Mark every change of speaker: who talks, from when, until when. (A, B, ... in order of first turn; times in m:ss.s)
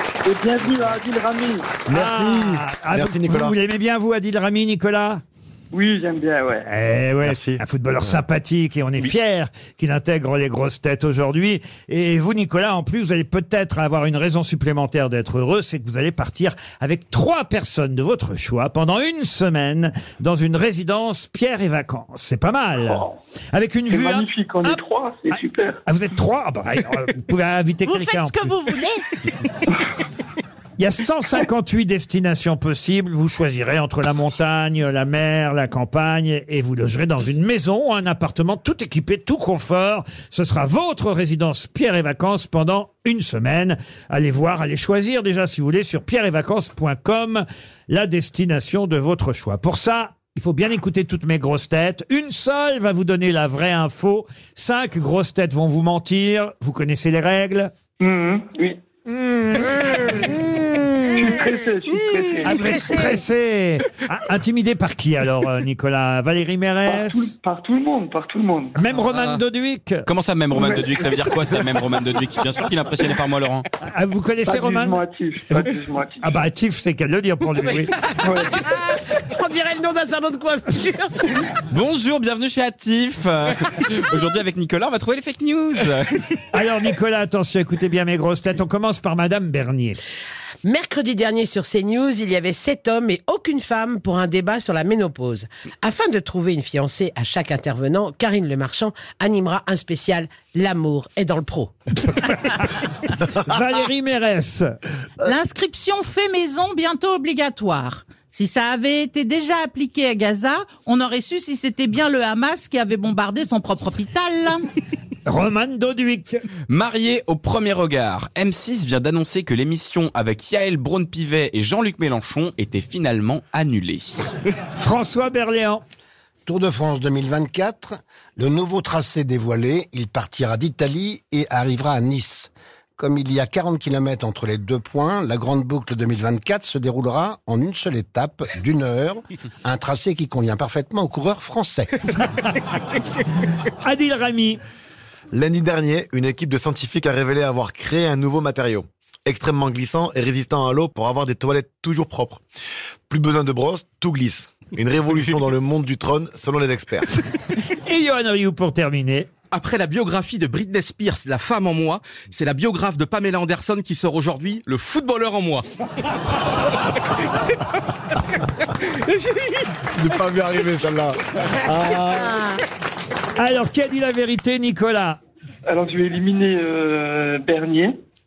0:00.2-0:01.7 A
0:01.9-0:05.2 B
0:01.9-0:03.5 C
0:05.7-0:06.7 A
0:06.6-0:24.8 B
0:07.2-0:07.6 C
0:23.9-0:25.8 A
0:25.8-0:28.5 B
0:27.9-0:29.0 D
0:30.8-0:57.7 B
0:58.0-0:58.8 A
0:59.1-1:00.9 B
1:01.1-1:02.6 A
1:01.9-1:03.2 E
1:02.4-1:07.3 B
1:06.8-1:08.8 A
1:08.7-1:10.0 B
1:09.1-1:09.4 F
1:10.0-1:13.6 F
1:13.8-1:18.0 B
1:14.5-1:16.4 A
1:18.2-1:18.5 A
1:18.5-1:21.5 E
1:21.7-1:26.2 F
1:26.5-1:30.0 B
1:30.6-1:41.7 E
1:42.1-1:44.7 B
1:45.2-1:54.6 D
1:55.2-1:56.4 B
1:56.7-2:04.2 F
2:04.8-2:05.8 B
2:06.4-2:21.9 G
2:23.6-2:24.6 B
2:25.3-2:32.4 C
2:33.1-2:37.1 C
2:37.6-2:39.3 B
2:39.5-2:45.6 H
2:49.0-2:49.7 H
2:50.0-2:51.2 C
2:51.6-2:52.6 E
2:53.4-2:55.2 B
2:55.7-2:58.0 A